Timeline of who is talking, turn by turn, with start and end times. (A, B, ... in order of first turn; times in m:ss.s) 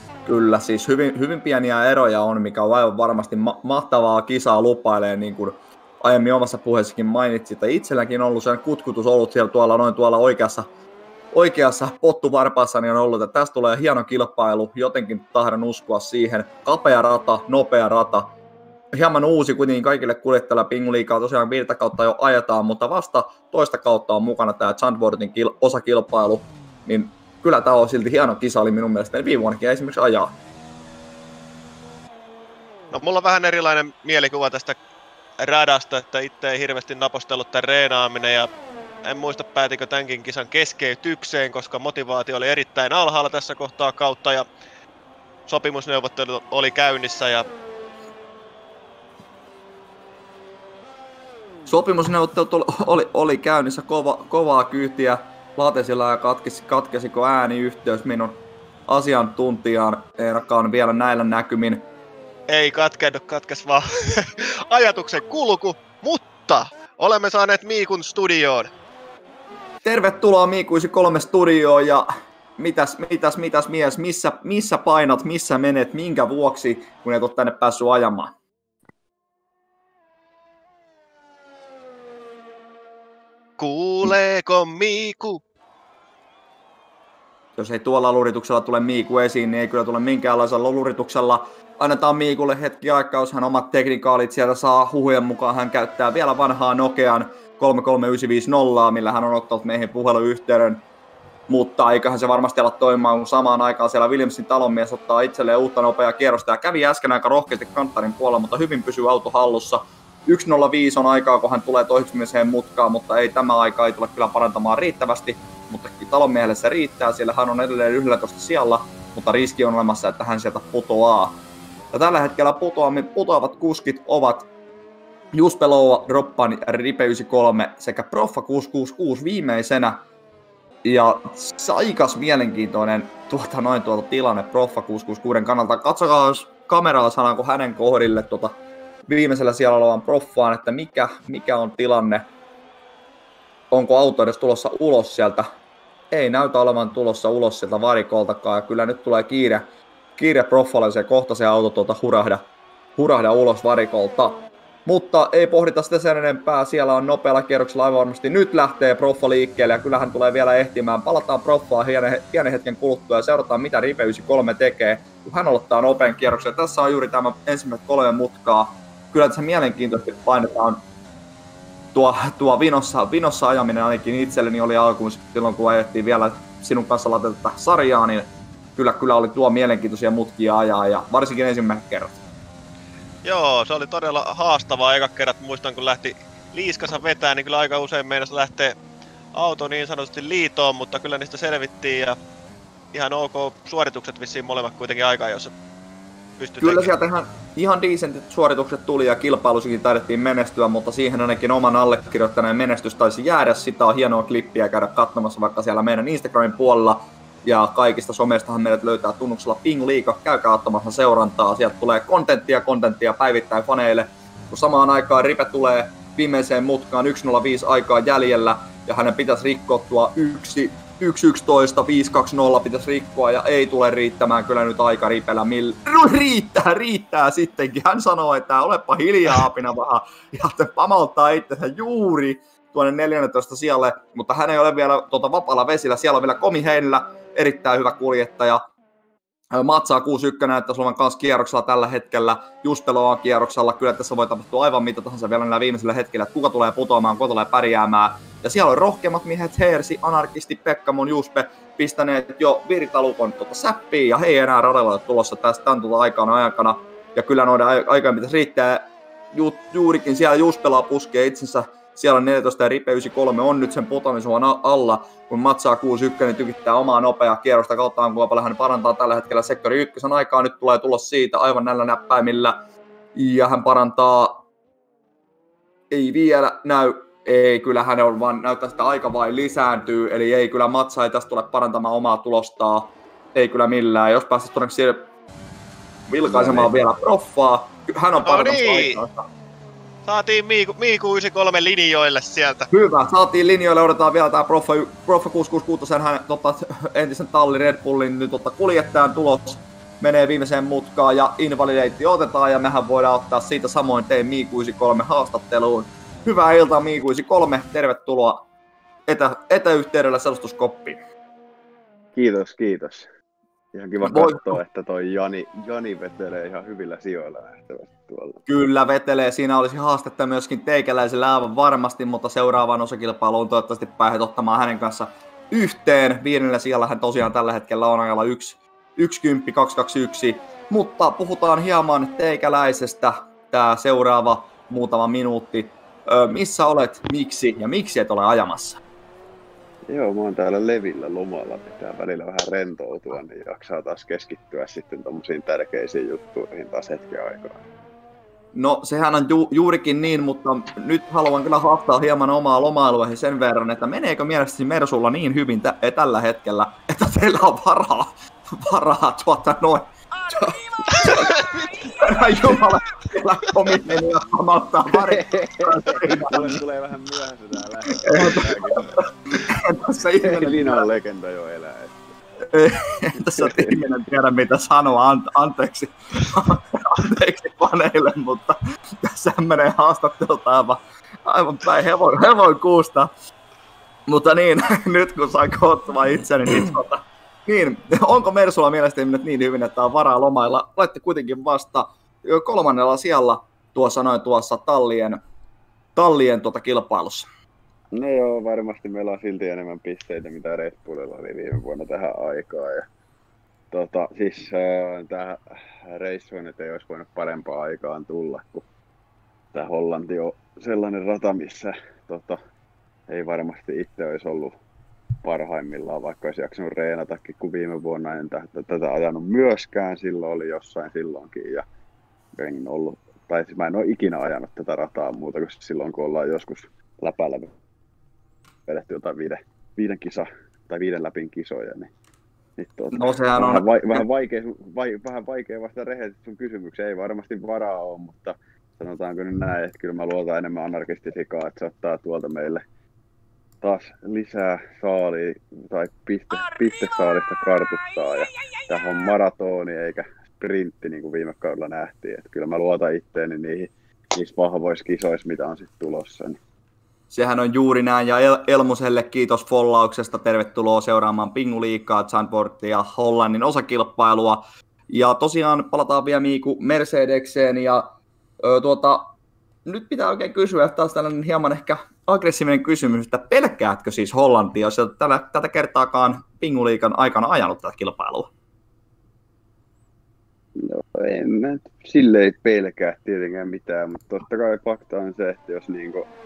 0:00.2-0:10.7 A
0:11.3-0:18.3 A
0:18.9-0:30.3 A
0:32.9-0:34.8 B
0:35.4-0:38.5 B
0:39.0-0:44.4 B
0:45.5-0:47.5 B
0:51.7-1:01.8 A
1:02.5-1:08.7 B
1:09.8-1:12.1 A
1:12.6-1:18.3 A
1:23.6-1:25.4 B
1:27.6-1:40.8 A
1:41.5-2:01.4 A
2:01.9-2:04.5 A
2:05.3-2:10.0 A
2:10.8-2:18.5 A
2:19.0-2:22.2 A
2:23.7-2:25.5 A
2:26.1-2:29.6 A
2:30.2-2:32.4 A
2:33.0-2:50.8 A
2:51.9-3:02.2 A
3:03.2-3:08.8 B
3:09.3-3:12.2 B
3:12.9-3:15.5 B
3:16.4-3:16.9 B
3:16.6-3:58.6 A
3:59.5-4:32.6 A
4:33.1-4:34.4 A
4:35.9-4:45.1 A
4:46.1-4:49.2 A
4:46.3-4:46.7 C
4:48.2-4:49.0 B
4:50.0-4:52.7 B
4:52.7-5:08.4 A
5:09.1-5:11.0 A
5:12.1-5:13.1 C
5:13.7-5:18.4 C
5:14.0-5:14.6 A
5:18.5-5:38.8 A
5:39.9-5:47.6 C
5:48.5-6:01.4 A
6:01.9-6:06.6 A
6:04.9-6:09.0 C
6:08.0-6:10.8 A
6:10.2-6:12.0 C
6:12.5-6:23.1 A
6:13.1-6:13.8 C
6:24.1-6:35.2 A
6:36.0-6:37.3 A
6:37.9-6:42.8 C
6:43.7-6:48.6 C
6:49.5-6:52.4 C
6:53.1-6:54.5 C
6:55.2-7:01.6 C
7:02.4-7:07.5 C
7:08.7-7:11.9 C
7:12.6-7:22.6 C
7:12.9-7:14.0 A
7:23.6-7:36.4 C
7:37.1-7:47.9 A
7:48.4-7:49.1 A
7:49.6-7:58.3 A
8:00.6-8:06.1 C